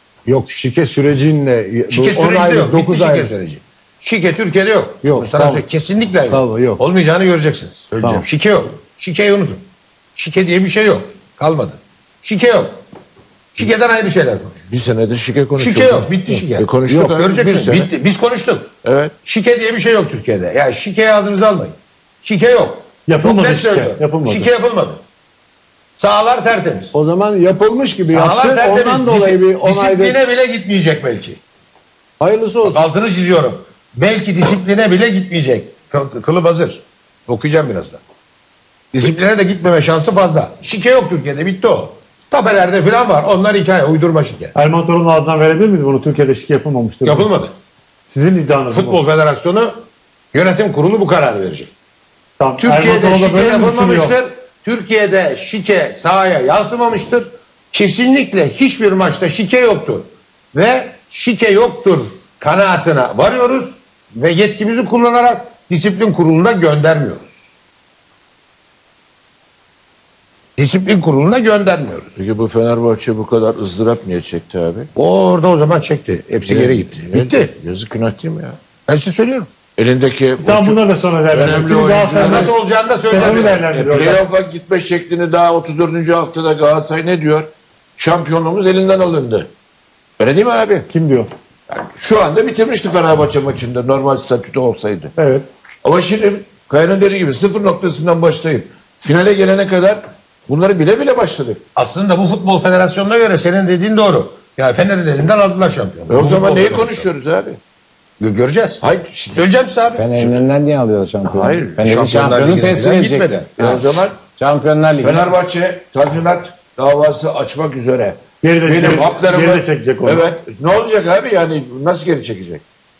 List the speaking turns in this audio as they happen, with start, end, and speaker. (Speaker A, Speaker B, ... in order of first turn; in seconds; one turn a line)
Speaker A: 0.2-3.3
Speaker B: 1.9-12.8
Speaker A: 5.0-5.6
Speaker A: 6.3-6.8
Speaker A: 8.0-8.2
Speaker B: 13.5-14.6
Speaker C: 14.7-17.9
Speaker B: 15.5-18.7
Speaker C: 18.8-19.1
Speaker B: 19.2-25.0
Speaker D: 23.1-24.5
Speaker B: 25.9-26.9
Speaker A: 26.9-30.2
Speaker B: 28.1-31.4
Speaker A: 32.2-32.8
Speaker B: 32.6-38.0
Speaker B: 38.9-44.5
Speaker D: 44.5-47.3
Speaker B: 47.0-47.5
Speaker D: 48.1-49.0
Speaker B: 48.7-51.7
Speaker D: 52.4-54.2
Speaker B: 52.6-67.3
Speaker B: 70.6-72.2
Speaker C: 72.2-74.9
Speaker B: 74.9-77.5
Speaker C: 76.4-78.6
Speaker B: 78.9-79.5
Speaker C: 79.8-80.8
Speaker D: 80.4-82.5
Speaker C: 81.3-82.5
Speaker B: 82.2-83.6
Speaker D: 83.1-84.2
Speaker C: 83.1-89.5
Speaker C: 90.2-90.9
Speaker D: 90.9-91.3
Speaker C: 91.7-95.1
Speaker D: 95.2-95.5
Speaker C: 95.8-101.6
Speaker B: 101.7-107.1
Speaker C: 106.1-107.6
Speaker B: 108.2-110.0
Speaker C: 108.8-109.4
Speaker E: 110.0-115.2
Speaker C: 111.2-111.9
Speaker B: 111.8-113.6
Speaker C: 113.6-114.2
Speaker C: 115.0-122.6
Speaker D: 118.4-120.3